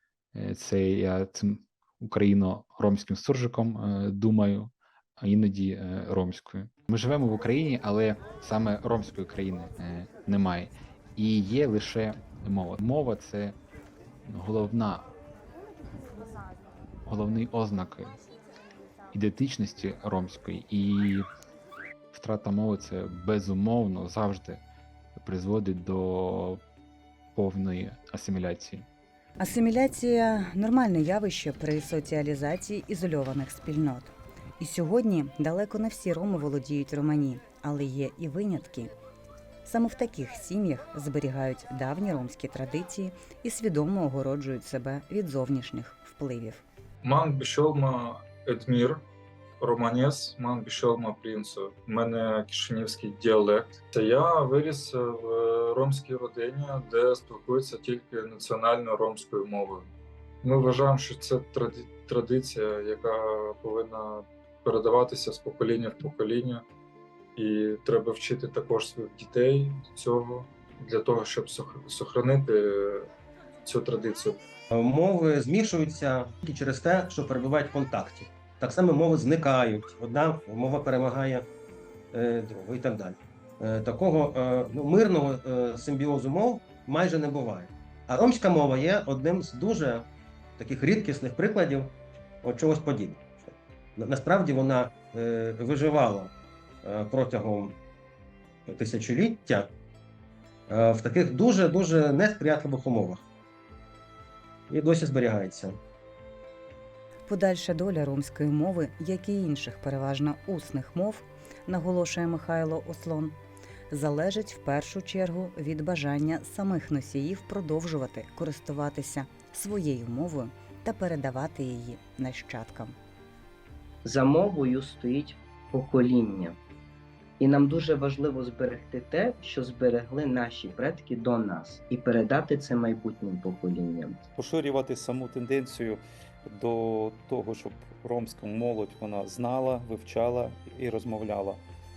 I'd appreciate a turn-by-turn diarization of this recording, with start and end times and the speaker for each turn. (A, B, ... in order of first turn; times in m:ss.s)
0:00.3-0:13.6 A
0:14.2-0:15.0 A
0:17.0-0:18.1 A
0:19.1-0:21.3 A
0:22.1-0:24.6 A
0:25.2-0:26.6 A
0:27.3-0:28.8 A
0:29.4-0:38.9 B
0:39.6-0:46.6 B
0:47.0-0:49.0 C
0:49.6-0:59.9 C
1:00.4-1:06.6 C
1:07.4-1:13.1 C
1:13.6-1:14.4 C
1:14.7-1:21.5 D
1:22.1-1:36.3 D
1:36.8-1:37.8 D
1:38.7-1:39.7 D
1:40.7-1:43.2 D
1:44.7-1:45.8 D
1:47.2-1:53.4 B
1:53.9-2:03.0 B
2:04.0-2:06.6 E
2:07.4-2:14.2 E
2:14.4-2:21.6 F